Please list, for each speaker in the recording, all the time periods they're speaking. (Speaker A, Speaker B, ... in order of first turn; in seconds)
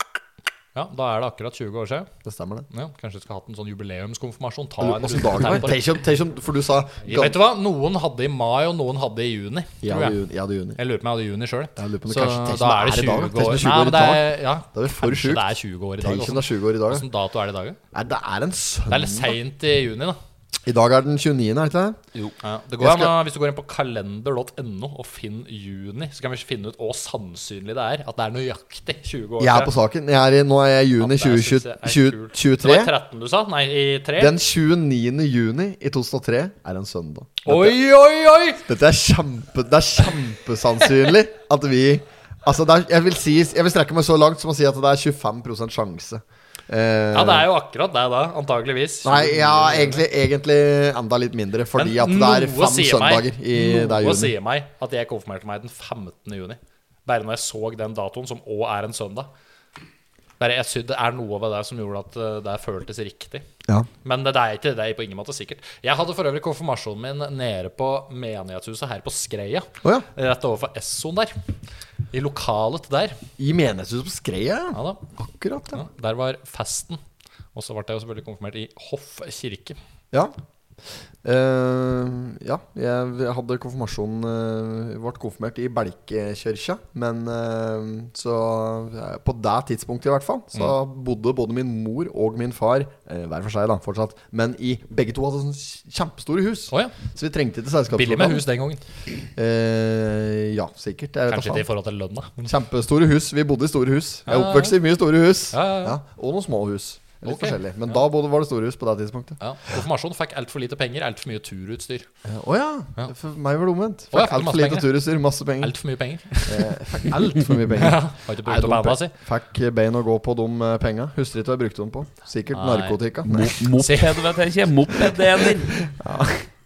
Speaker A: 0.7-2.1, 2.7-5.8, 7.0-10.2, 10.8-17.8, 18.9-20.2, 22.4-29.7, 31.0-34.4, 37.4-38.6, 47.1-50.0, 51.8-59.3, 60.4-63.4, 64.0-71.3, 72.1-73.2, 74.7-75.0, 75.7-77.0, 77.5-79.8, 97.9-98.8, 101.3-102.5, 104.3-104.8, 105.5-106.0, 107.2-107.6, 109.4-112.1, 114.1-114.9, 115.6-119.1, 122.5-123.0, 123.8-124.4
Speaker B: 2.2-2.6, 4.8-7.4, 9.8-10.8, 11.8-17.1, 17.9-19.3, 20.6-22.0, 22.8-23.1, 29.4-32.9, 34.2-37.8, 38.6-47.5, 49.0-54.3, 73.4-75.8, 81.2-98.4, 99.3-101.7, 102.4-109.4, 112.2-115.7, 116.4-123.6, 126.0-126.5
Speaker C: 123.2-125.7